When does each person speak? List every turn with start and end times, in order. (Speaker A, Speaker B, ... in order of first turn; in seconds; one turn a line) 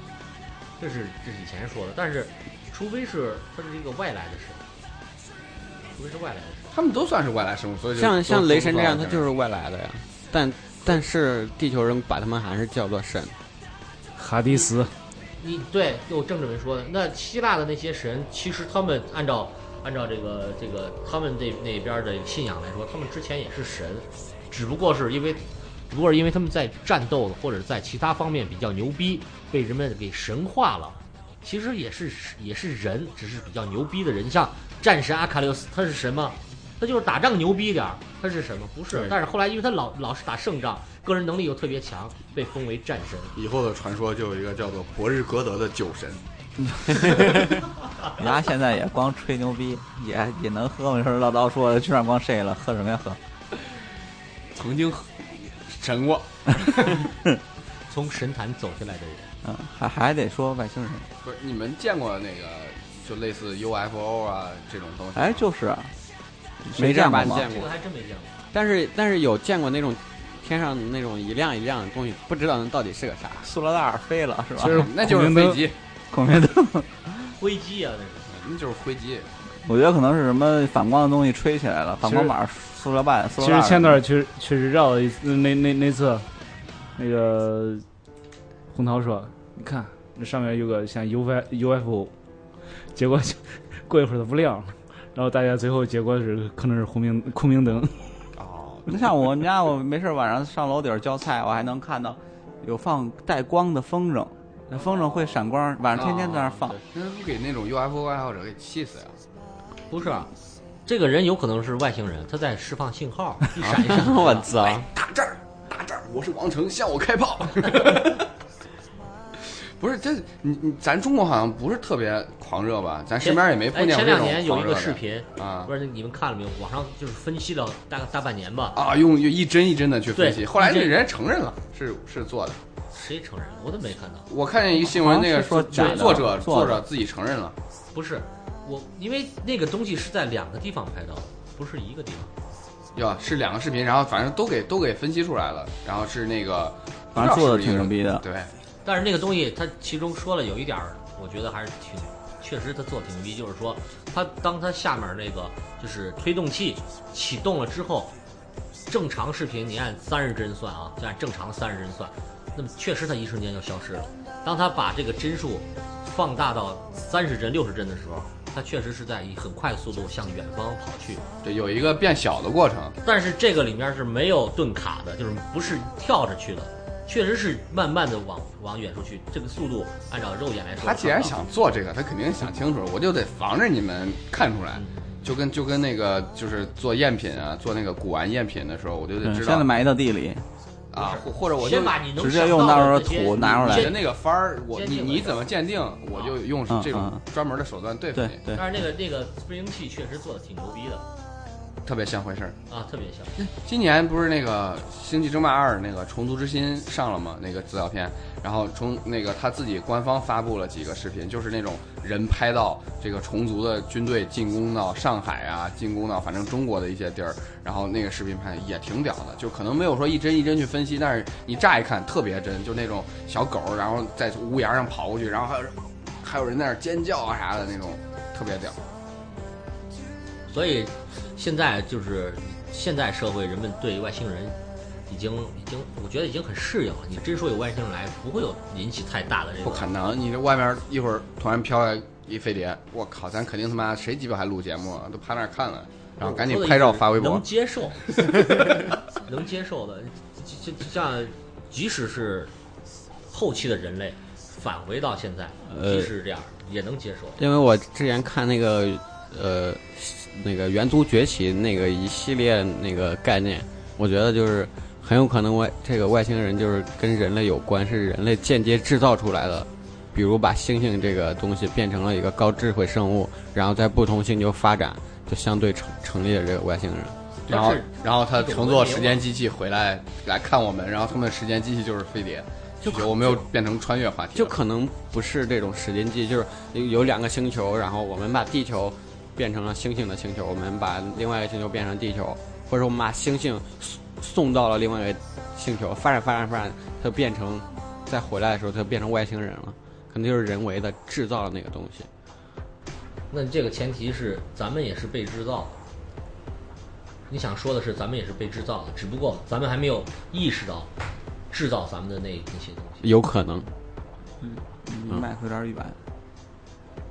Speaker A: 0.8-4.6
Speaker A: 5.9-6.7
Speaker B: 6.7-9.2
Speaker C: 8.0-13.3
Speaker D: 14.2-14.9
Speaker A: 15.4-43.3
Speaker B: 43.4-46.2
Speaker E: 46.7-47.4
Speaker E: 48.1-53.2
Speaker B: 54.5-57.1
Speaker A: 57.9-59.3
Speaker E: 59.4-61.1
Speaker B: 61.2-65.4
Speaker E: 65.1-65.9
Speaker E: 66.6-67.5
Speaker C: 66.7-67.7
Speaker A: 67.3-68.4
Speaker C: 68.5-73.5
Speaker E: 73.4-74.9
Speaker D: 74.6-75.6
Speaker B: 74.6-75.8
Speaker E: 76.1-77.3
Speaker A: 77.4-78.3
Speaker B: 78.3-79.3
Speaker E: 79.6-84.0
Speaker D: 82.0-82.3
Speaker D: 83.4-86.3
Speaker D: 87.0-87.8
Speaker D: 88.7-92.1
Speaker D: 92.9-98.0
Speaker B: 98.3-99.1
Speaker E: 98.9-106.8
Speaker B: 106.0-109.2
Speaker A: 109.9-110.3
Speaker A: 110.8-114.8
Speaker C: 113.6-114.8
Speaker B: 114.8-118.2
Speaker B: 119.8-125.7
Speaker A: 123.2-128.8
Speaker B: 128.7-132.6
Speaker A: 130.1-131.0
Speaker A: 132.9-134.3
Speaker B: 134.3-137.6
Speaker E: 134.7-136.8
Speaker A: 135.7-136.1
Speaker A: 137.9-142.3
Speaker B: 142.9-148.5
Speaker E: 147.1-148.2
Speaker A: 148.8-158.1
Speaker A: 158.9-171.2
Speaker B: 171.4-173.0
Speaker A: 173.0-181.4
Speaker B: 180.8-189.7
Speaker A: 184.8-185.3
Speaker E: 189.2-190.4
Speaker B: 190.9-192.0
Speaker A: 190.9-194.1
Speaker E: 192.2-194.0
Speaker B: 193.4-198.4
Speaker A: 194.7-195.5
Speaker E: 196.7-197.2
Speaker E: 198.1-198.6
Speaker A: 198.5-201.0
Speaker B: 201.8-202.6
Speaker A: 202.7-203.3
Speaker B: 203.4-228.8
Speaker A: 230.5-234.6
Speaker A: 235.1-239.9
Speaker B: 239.6-247.4
Speaker A: 246.2-252.5
Speaker A: 253.3-257.4
Speaker C: 255.7-256.1
Speaker C: 257.4-277.1
Speaker A: 277.5-279.2
Speaker B: 277.5-284.6
Speaker C: 282.8-283.5
Speaker C: 284.3-302.1
Speaker A: 303.3-305.8
Speaker A: 307.3-310.9
Speaker A: 311.5-313.1
Speaker C: 313.0-313.7
Speaker E: 314.4-315.9